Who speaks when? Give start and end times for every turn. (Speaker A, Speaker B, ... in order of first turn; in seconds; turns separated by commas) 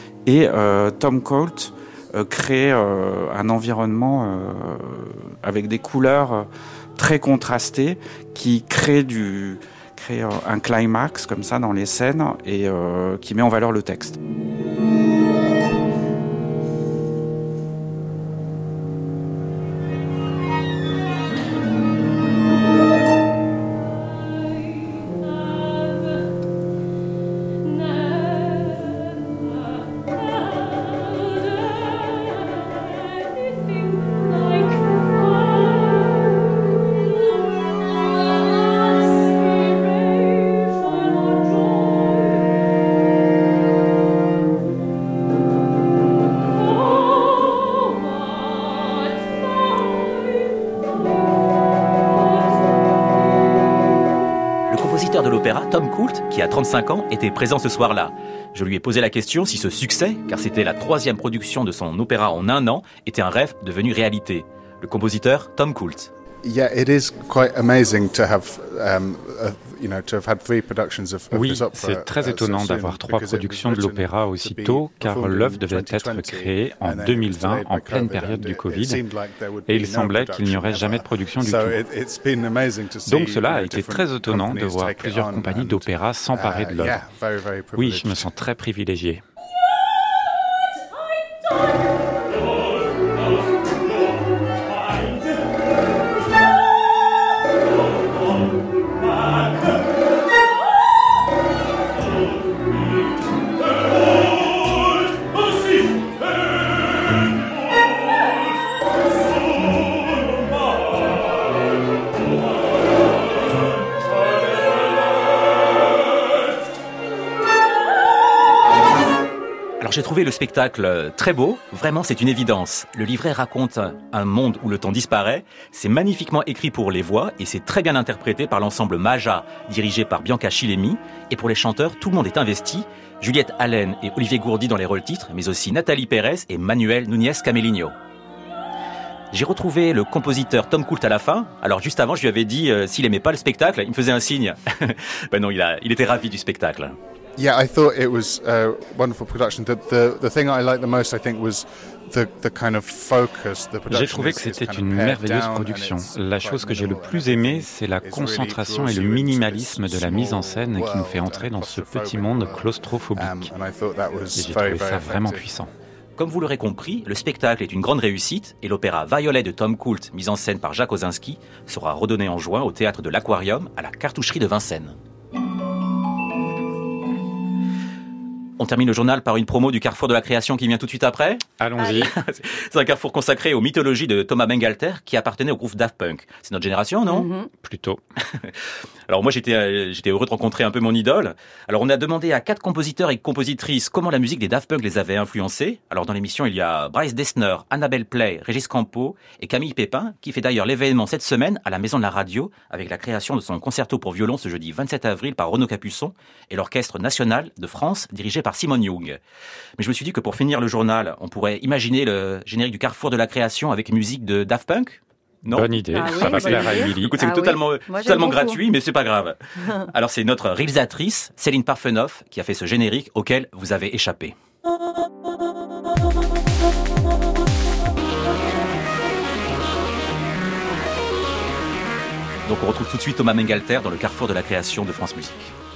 Speaker A: 0.2-14.2, Speaker B: 54.7-66.1, Speaker C: 66.4-88.3, Speaker D: 71.3-79.0, Speaker D: 79.7-81.8, Speaker D: 83.0-87.0, Speaker D: 87.8-89.2, Speaker B: 119.8-137.9, Speaker B: 139.3-147.0, Speaker C: 147.4-165.4, Speaker D: 153.9-163.5, Speaker D: 164.3-165.7, Speaker B: 166.2-174.9, Speaker B: 178.6-187.3, Speaker D: 181.6-182.1, Speaker E: 187.1-187.5, Speaker D: 187.6-188.0, Speaker B: 189.1-209.2, Speaker B: 209.8-224.3, Speaker D: 215.5-217.2, Speaker E: 215.9-218.6, Speaker B: 232.4-235.5